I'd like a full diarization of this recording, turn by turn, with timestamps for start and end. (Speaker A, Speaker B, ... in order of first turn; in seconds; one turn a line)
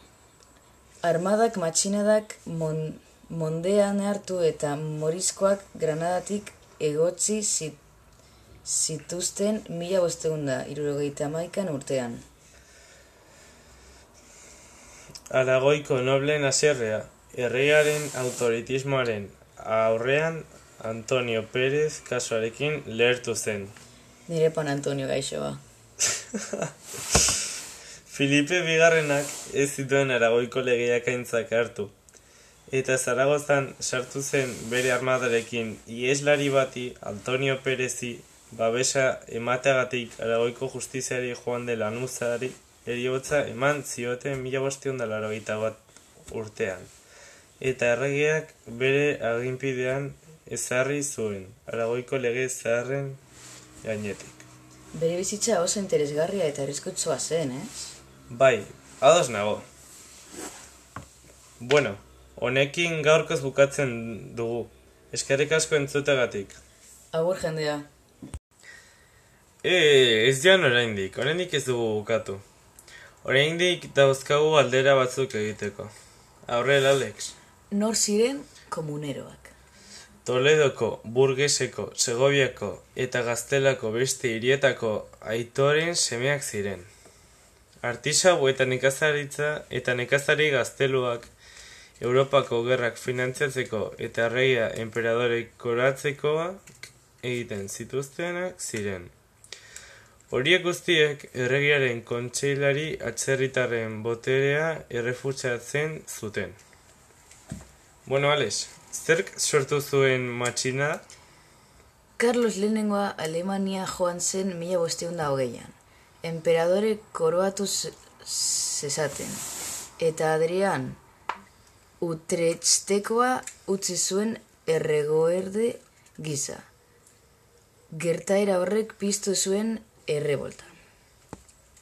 Speaker A: 1.0-7.8
Speaker A: 8.6-12.2
Speaker B: 15.3-23.7
Speaker A: 24.3-25.6
Speaker B: 26.3-27.3
Speaker B: 28.1-31.9
Speaker B: 32.7-46.9
Speaker B: 47.6-53.2
Speaker B: 53.8-54.4
Speaker A: 54.9-57.9
Speaker B: 58.3-59.6
Speaker B: 61.6-66.6
Speaker A: 67.1-67.8
Speaker B: 69.6-72.4
Speaker B: 73.2-75.9
Speaker B: 76.5-77.3
Speaker A: 77.7-79.5
Speaker B: 80.2-86.9
Speaker B: 87.8-91.3
Speaker B: 92.0-96.6
Speaker B: 97.2-99.1
Speaker B: 100.3-106.6
Speaker B: 108.0-111.0
Speaker A: 112.2-119.4
Speaker A: 120.0-121.0
Speaker A: 122.0-126.6
Speaker A: 127.9-130.8